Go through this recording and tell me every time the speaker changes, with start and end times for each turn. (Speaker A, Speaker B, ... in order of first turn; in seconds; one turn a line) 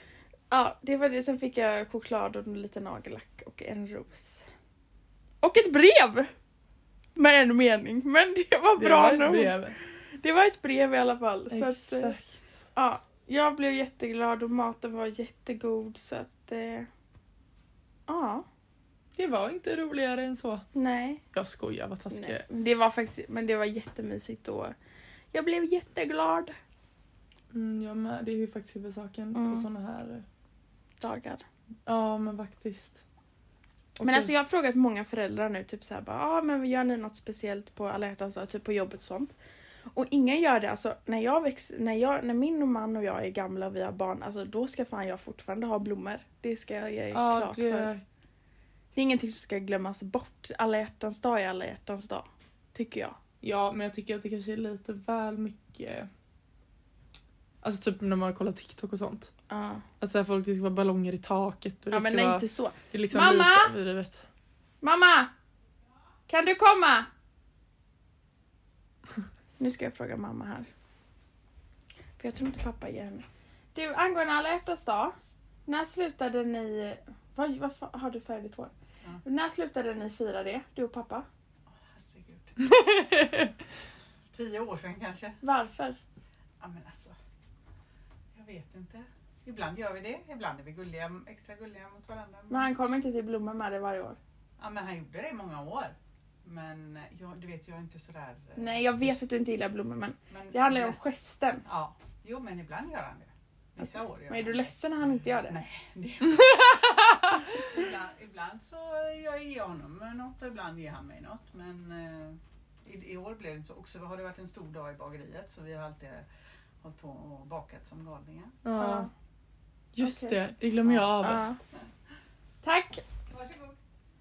Speaker A: 0.5-4.4
Speaker A: 5.4-6.3
Speaker A: 7.2-9.6
Speaker B: 8.8-9.8
Speaker A: 10.2-12.1
Speaker B: 11.5-12.4
Speaker A: 12.8-16.9
Speaker A: 18.1-18.4
Speaker B: 19.1-20.6
Speaker A: 20.8-21.2
Speaker B: 21.3-22.4
Speaker A: 22.1-24.7
Speaker A: 25.3-26.5
Speaker B: 27.5-30.2
Speaker A: 29.3-29.6
Speaker A: 31.0-31.4
Speaker B: 31.9-33.0
Speaker B: 34.0-34.3
Speaker A: 34.0-39.3
Speaker A: 39.9-47.9
Speaker B: 47.1-48.0
Speaker A: 48.9-53.2
Speaker B: 53.4-56.1
Speaker B: 57.6-59.3
Speaker A: 59.5-59.9
Speaker B: 60.0-64.2
Speaker A: 61.9-63.7
Speaker A: 64.8-65.3
Speaker A: 66.3-67.1
Speaker A: 69.6-70.7
Speaker A: 72.2-75.1
Speaker A: 75.7-78.7
Speaker A: 79.2-81.2
Speaker C: 81.7-82.6
Speaker C: 84.3-85.4
Speaker A: 85.4-86.0
Speaker C: 86.6-87.1
Speaker C: 88.3-92.7
Speaker A: 92.5-94.2
Speaker C: 94.6-99.2
Speaker A: 98.6-101.6
Speaker C: 100.3-101.0
Speaker C: 101.7-116.2
Speaker A: 104.3-105.6
Speaker C: 116.8-118.6
Speaker B: 118.6-119.1
Speaker A: 118.8-119.1
Speaker B: 119.9-121.4
Speaker A: 120.0-120.4
Speaker C: 120.8-121.1
Speaker A: 121.2-121.6
Speaker A: 122.6-123.0
Speaker C: 123.3-123.7